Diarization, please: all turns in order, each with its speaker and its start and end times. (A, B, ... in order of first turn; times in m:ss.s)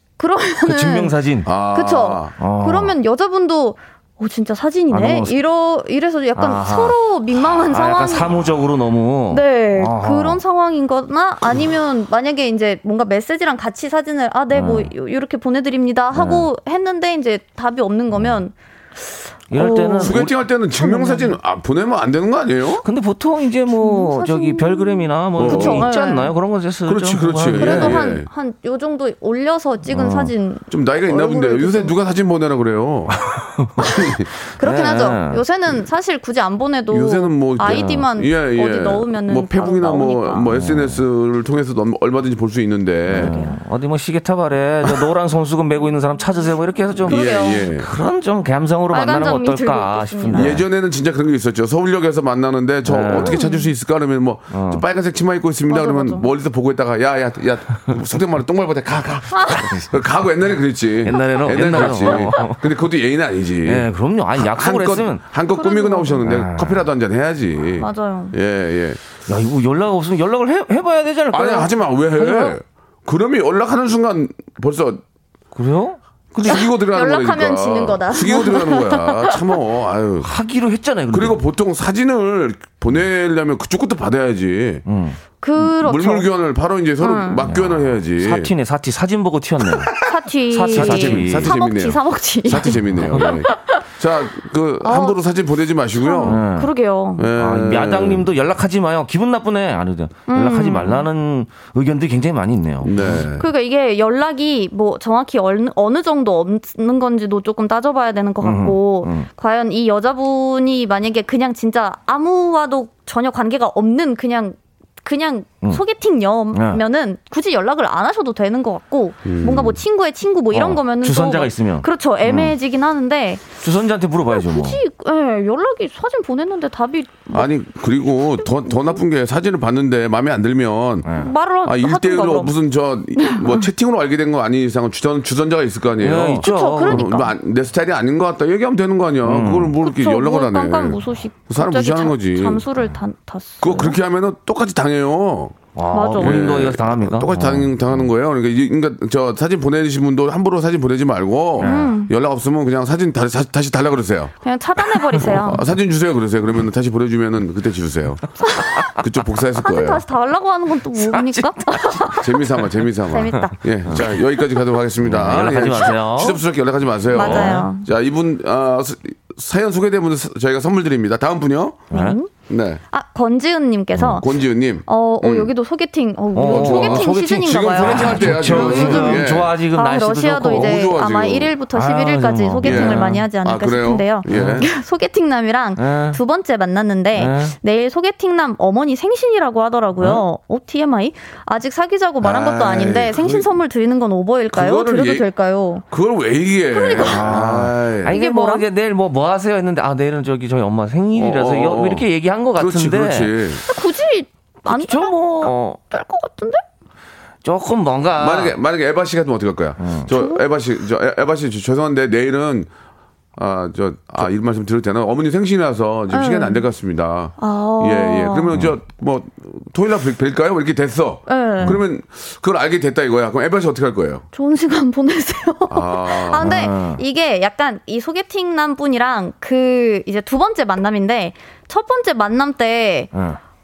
0:00.2-0:01.1 A
0:00.6-0:01.5 B
0:01.4-0:02.3 C
0:01.7-0:08.3 A
0:02.4-0:02.9 B
0:04.9-0:05.4 B
0:06.4-0:10.4 B
0:09.3-0:20.2 A
0:14.5-0:14.9 B
0:16.1-0:16.4 B
0:19.5-0:20.3 B
0:20.0-0:22.8 C
0:20.8-0:21.4 A
0:22.8-0:28.0 B
0:23.8-0:26.3 A
0:25.4-0:25.9 C
0:26.8-0:28.3 C
0:27.6-0:31.9 A
0:29.9-0:30.3 B
0:30.7-0:33.2 C
0:33.2-0:33.7 B
0:33.8-0:34.3 C
0:34.6-0:40.5 A
0:34.6-0:35.4 B
0:36.9-0:43.3 C
0:37.6-0:38.0 B
0:40.5-0:41.0 B
0:43.1-0:50.6 B
0:43.1-0:43.6 A
0:47.0-0:47.7 A
0:47.0-0:47.9 C
0:48.9-0:50.6 A
0:50.3-1:09.0 C
0:52.8-0:53.4 B
0:53.2-0:53.7 A
0:54.5-0:54.8 B
0:55.7-0:56.3 A
0:59.3-0:59.6 A
0:59.5-0:59.9 B
1:01.1-1:02.6 B
1:01.1-1:02.5 A
1:03.6-1:05.2 B
1:05.5-1:06.2 A
1:06.2-1:06.9 B
1:07.8-1:08.4 A
1:09.3-1:12.6 B
1:11.3-1:15.0 C
1:15.5-1:16.6 B
1:16.4-1:20.3 C
1:16.5-1:19.3 A
1:20.2-1:21.4 B
1:21.1-1:24.8 C
1:24.8-1:25.2 B
1:25.4-1:26.3 A
1:25.8-1:28.5 C
1:27.0-1:27.4 A
1:27.5-1:30.0 B
1:29.7-1:29.9 C
1:30.0-1:33.8 A
1:30.5-1:31.5 B
1:30.7-1:36.4 C
1:32.9-1:33.3 B
1:34.8-1:35.2 A
1:36.0-1:37.3 A
1:36.2-1:36.7 B
1:37.2-1:38.3 C
1:37.4-1:43.2 B
1:40.3-1:41.0 A
1:42.8-1:43.4 C
1:43.4-2:03.4 A
1:48.4-1:49.3 B
1:56.5-1:56.8 B
1:59.2-1:59.8 C
2:00.5-2:02.5 B
2:03.6-2:04.8 B
2:04.3-2:07.5 A
2:07.3-2:11.1 C
2:08.6-2:09.0 A
2:11.0-2:11.3 B
2:11.2-2:12.6 A
2:11.6-2:22.6 C
2:13.2-2:13.6 A
2:16.0-2:17.1 B
2:16.4-2:17.3 A
2:19.2-2:19.7 B
2:19.8-2:24.0 A
2:23.6-2:25.6 C
2:25.7-2:28.0 B
2:25.9-2:26.4 A
2:26.2-2:34.3 C
2:31.6-2:31.9 B
2:31.6-2:32.1 A
2:34.4-2:35.6 A
2:35.1-2:35.4 B
2:35.2-2:38.2 C
2:38.4-2:38.8 A
2:38.9-2:40.0 C
2:39.6-2:42.2 A
2:41.0-2:42.3 B
2:42.2-2:51.9 C
2:43.1-2:43.6 A
2:45.0-2:46.4 B
2:47.1-2:47.7 B
2:47.1-2:47.8 A
2:51.9-2:52.3 A
2:51.9-2:52.2 B
2:52.5-2:52.8 C
2:52.9-2:54.3 A
2:54.2-2:55.5 C
2:54.9-3:15.8 A
2:56.3-3:00.8 B
2:56.4-2:59.5 C
3:00.4-3:01.5 C
3:01.7-3:03.2 B
3:02.6-3:04.7 C
3:04.3-3:04.6 B
3:05.8-3:06.2 B
3:07.1-3:07.5 B
3:12.2-3:13.5 C
3:14.5-3:15.3 C
3:15.9-3:18.1 C
3:16.7-3:17.3 A
3:17.0-3:23.4 B
3:18.1-3:18.6 A
3:21.1-3:23.6 C
3:23.7-3:26.6 A
3:24.7-3:25.8 B
3:27.4-3:28.6 B
3:28.2-3:32.7 C
3:29.8-3:30.1 B
3:30.1-3:30.4 A
3:33.4-3:44.2 C
3:36.1-3:36.6 A
3:37.4-3:38.5 A
3:41.3-3:41.8 A
3:44.3-3:53.1 A
3:45.7-3:46.6 C
3:46.4-3:47.0 B
3:53.1-3:53.4 B